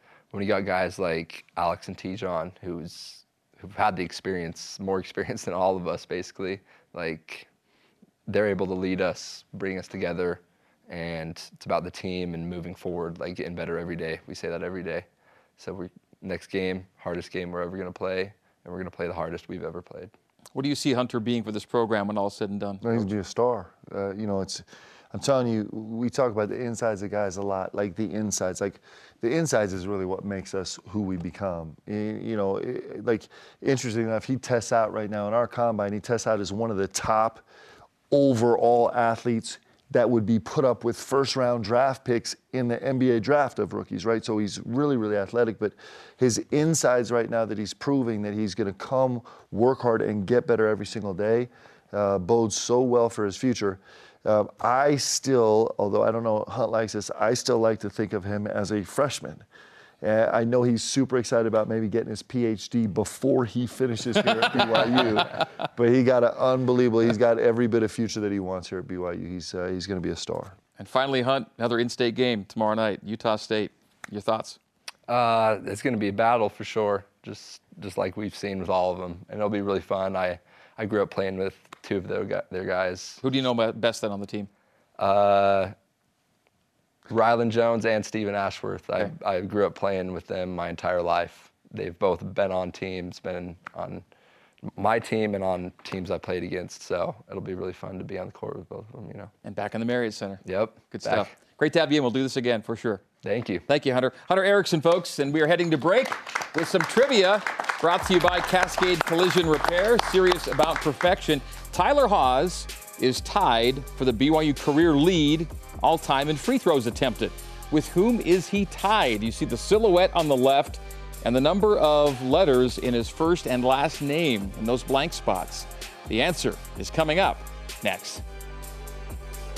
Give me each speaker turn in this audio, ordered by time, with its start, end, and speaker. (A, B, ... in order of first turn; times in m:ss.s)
0:00.3-0:07.5 A
0:08.3-0:15.1 A
0:15.6-0:20.1 A
0:20.5-0:22.9 B
0:22.8-0:37.4 C
0:38.1-0:59.4 C
1:00.0-1:10.6 C
1:10.8-1:14.6 B
1:15.1-1:23.2 A
1:23.2-1:24.5 B
1:25.0-1:25.7 A
1:27.1-1:34.0 A
1:34.7-1:39.3 A
1:39.4-1:43.0 B
1:40.4-1:41.3 A
1:43.2-1:43.6 A
1:43.7-2:08.2 B